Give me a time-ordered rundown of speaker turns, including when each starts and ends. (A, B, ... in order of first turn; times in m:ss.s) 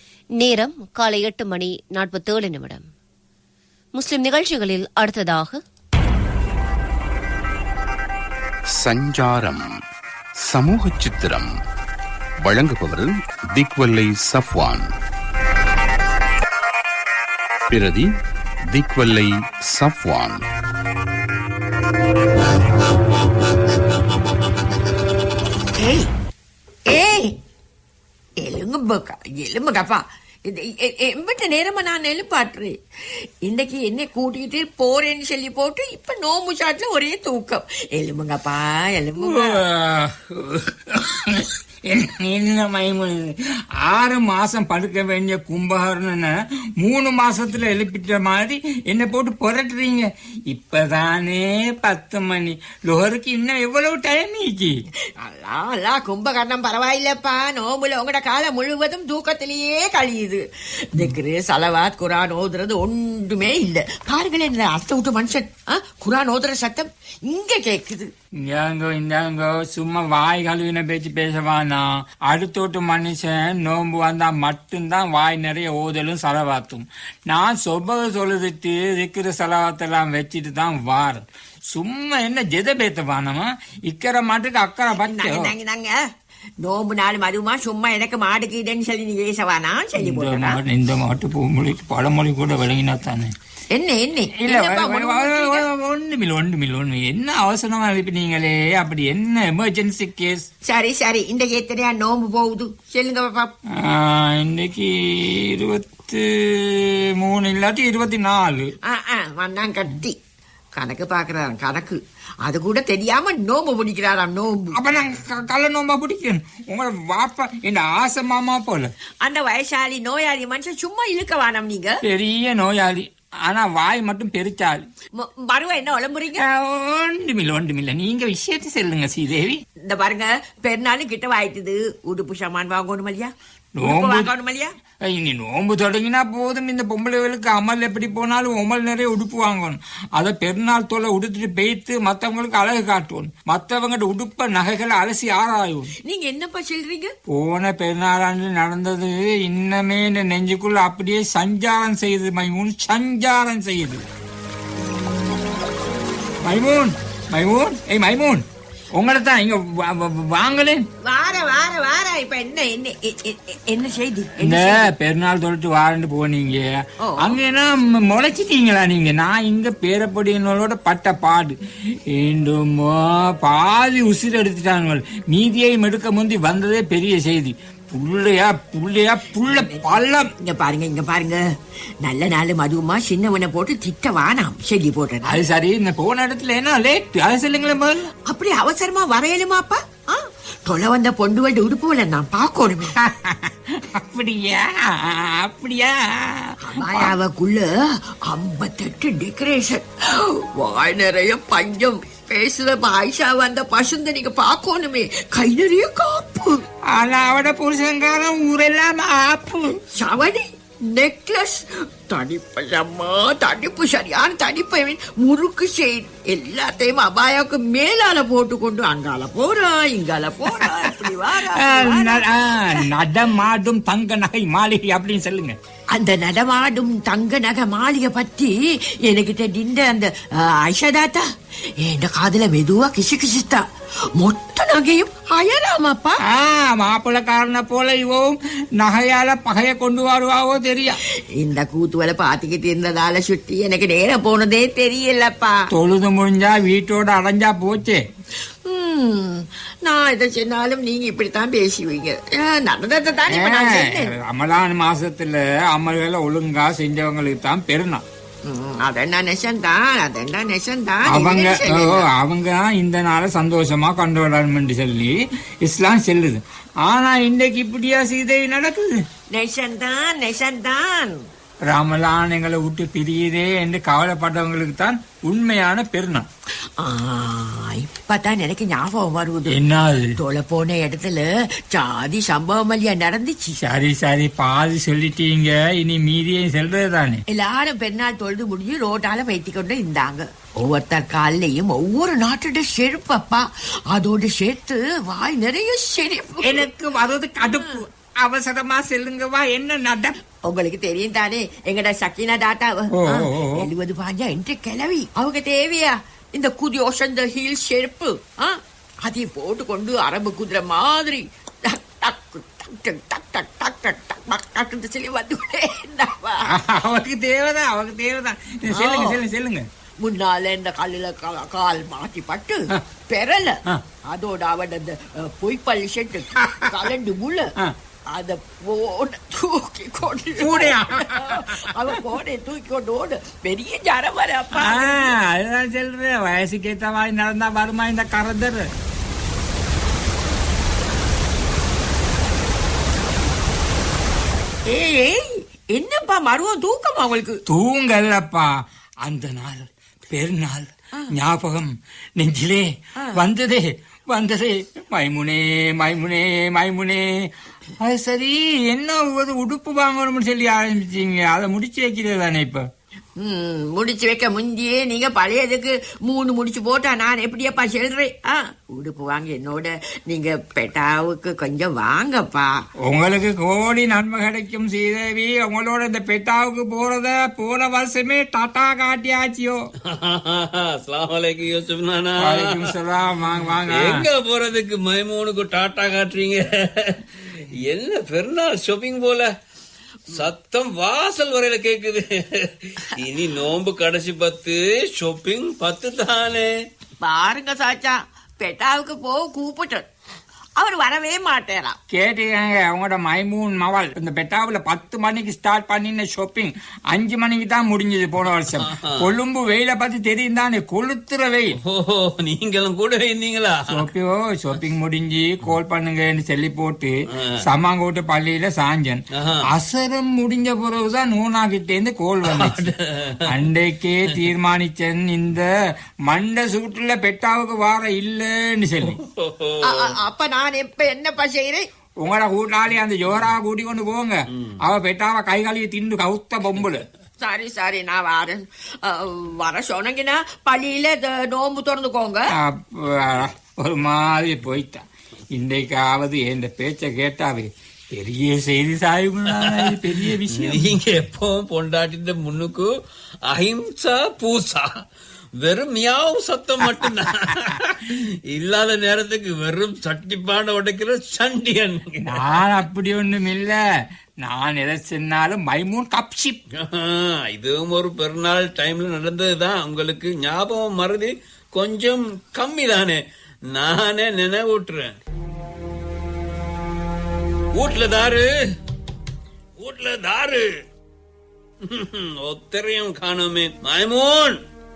0:00.4-0:02.8 A
0:03.9-0:05.6 A
0:08.8-0:09.6 B
0:10.4-0:11.5 B
0:12.4-0:14.8 B
0:17.7-0:18.1 B
0:18.7-0:20.4 B
0:25.7-0:26.1 C
0:26.9-0:27.3 C
0:28.4-0:32.8 C
0:33.4-0:39.6 C
0:39.2-0:54.7 D
0:55.2-1:08.1 C
1:08.4-1:25.5 D
1:25.0-1:26.0 C
1:26.6-1:30.6 C
1:30.0-1:33.3 D
1:33.7-1:35.6 C
1:34.4-1:40.5 D
1:40.6-1:43.5 C
1:43.8-1:48.7 D
1:48.8-1:50.2 C
1:50.8-1:54.8 C
1:54.7-1:58.9 D
1:59.2-2:02.0 C
2:02.0-2:04.8 D
2:05.2-2:06.4 C
2:06.4-2:09.6 D
2:09.8-2:14.7 C
2:13.8-2:14.3 D
2:15.0-2:25.9 D
2:26.1-2:27.1 C
2:27.3-2:34.0 D
2:36.4-2:38.4 D
2:39.0-2:40.8 D
2:41.0-2:44.9 C
2:44.4-2:46.6 D
2:47.0-2:47.4 C
2:47.2-2:51.6 D
2:52.1-3:00.2 D
2:59.4-3:01.4 C
3:02.0-3:05.4 C
3:05.2-3:08.1 D
3:08.3-3:12.9 C
3:13.0-3:17.1 D
3:16.6-3:17.6 C
3:18.3-3:26.6 C
3:26.9-3:29.8 D
3:29.9-3:42.8 C
3:41.6-3:45.6 D
3:45.9-3:48.5 C
3:49.0-3:51.2 C
3:51.8-3:53.6 C
3:54.2-3:56.2 C
3:56.2-4:01.0 D
4:01.3-4:05.6 C
4:05.7-4:08.0 D
4:08.6-4:14.1 C
4:13.3-4:18.0 D
4:18.4-4:22.0 C
4:21.1-4:29.0 D
4:29.3-4:31.2 C
4:31.7-4:36.2 D
4:36.8-4:39.6 C
4:39.5-4:40.1 D
4:40.2-4:43.6 C
4:43.6-4:47.2 D
4:47.3-4:56.7 C
4:56.4-5:00.1 D
4:57.4-4:57.7 C
5:00.4-5:16.4 C
5:03.0-5:03.6 D
5:16.5-5:19.6 D
5:18.7-5:19.2 C
5:20.0-5:27.5 C
5:28.1-5:35.1 C
5:30.4-5:31.5 D
5:34.6-5:38.7 D
5:44.7-5:47.4 C
5:47.5-5:48.5 D
5:49.0-5:57.3 D
5:57.8-6:02.6 D
6:03.2-6:12.5 C
6:12.8-6:19.6 D
6:19.9-6:22.6 E
6:22.2-6:24.0 D
6:23.7-6:27.0 E
6:27.6-6:29.3 E
6:30.1-6:36.5 E
6:37.0-6:39.9 C
6:40.6-6:41.8 C
6:41.9-6:51.5 D
6:48.6-6:48.9 E
6:51.6-6:53.8 E
6:53.7-7:02.7 D
6:59.2-6:59.4 E
7:02.3-7:03.1 E
7:03.2-7:05.5 D
7:06.1-7:08.9 D
7:08.8-7:09.8 E
7:09.6-7:11.6 C
7:12.0-7:16.8 D
7:17.2-7:22.3 C
7:22.4-7:24.8 D
7:25.3-7:30.6 D
7:30.4-7:32.7 E
7:33.3-7:34.7 E
7:35.4-7:42.2 E
7:42.1-7:43.6 D
7:44.2-7:46.4 D
7:46.6-7:53.0 E
7:53.5-7:54.9 E
7:57.5-7:58.3 E
7:59.6-8:00.5 E
8:01.6-8:04.4 E